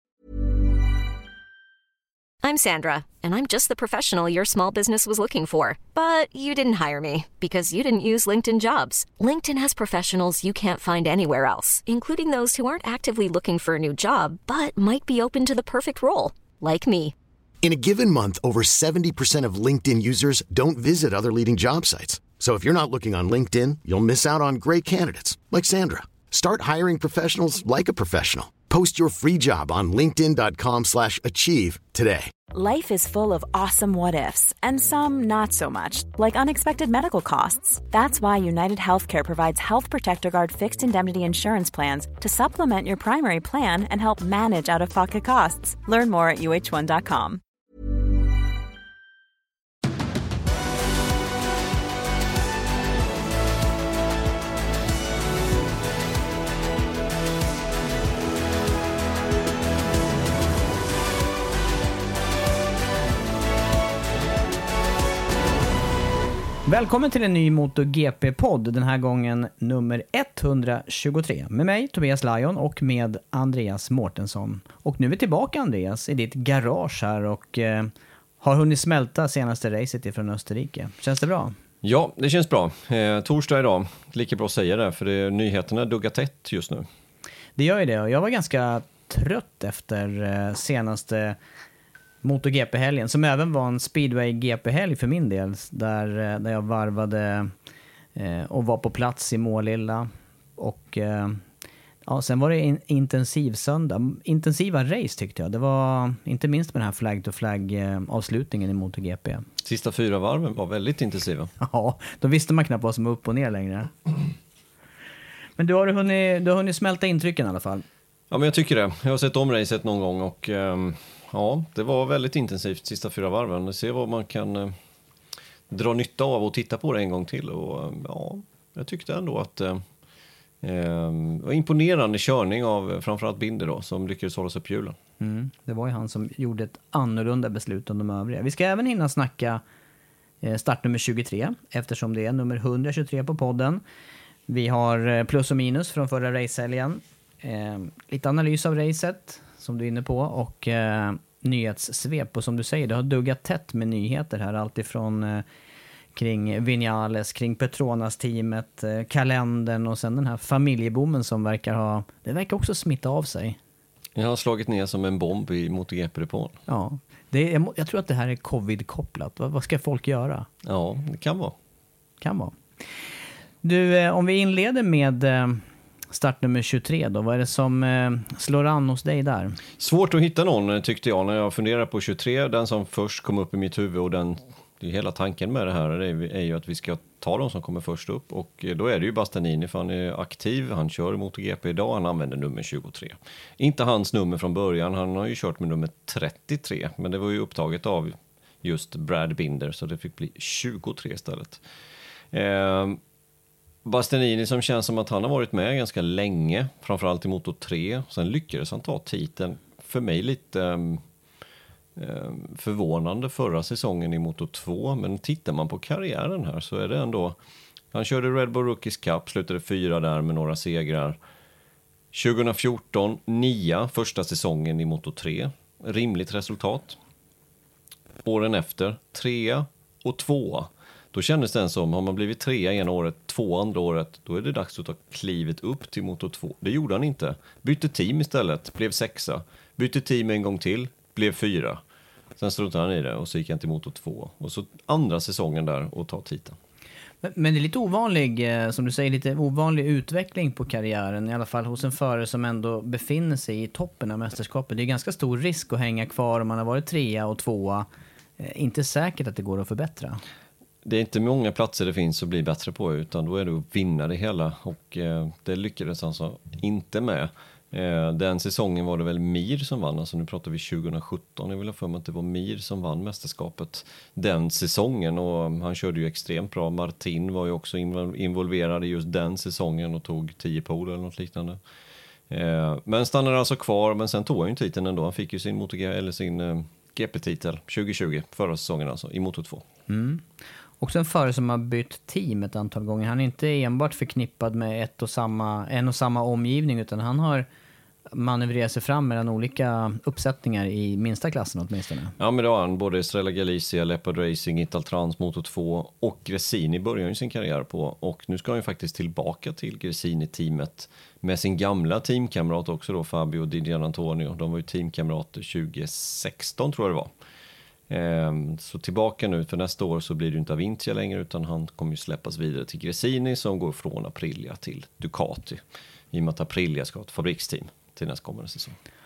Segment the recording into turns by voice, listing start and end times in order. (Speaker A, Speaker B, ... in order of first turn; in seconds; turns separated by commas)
Speaker A: 2.4-17.1, Speaker B: 17.6-32.3, Speaker C: 32.5-47.4, Speaker D: 66.7-81.5, Speaker E: 81.8-86.9, Speaker D: 87.6-91.4, Speaker D: 92.2-97.5, Speaker D: 98.2-101.4, Speaker D: 102.0-109.4, Speaker E: 109.6-111.5, Speaker D: 111.6-114.1, Speaker D: 115.6-117.8, Speaker E: 118.3-124.7, Speaker E: 125.7-129.8, Speaker E: 130.6-135.0, Speaker D: 135.2-139.6, Speaker D: 140.4-143.8, Speaker D: 144.5-155.4, Speaker D: 156.1-163.6, Speaker E: 164.1-166.6, Speaker D: 166.7-170.5, Speaker E: 170.6-171.5, Speaker D: 172.2-172.5, Speaker D: 173.6-179.6, Speaker E: 179.8-201.6, Speaker E: 202.3-203.0, Speaker E: 203.8-211.0, Speaker E: 211.9-217.4, Speaker E: 217.9-221.2, Speaker E: 222.1-227.0, Speaker E: 228.2-241.8, Speaker E: 242.4-246.6, Speaker D: 247.2-257.9, Speaker D: 258.4-260.2, Speaker E: 260.8-281.6, Speaker E: 282.3-289.6, Speaker D: 289.9-290.2, Speaker D: 290.8-297.5, Speaker D: 298.1-302.1, Speaker E: 302.2-317.1, Speaker E: 317.9-328.8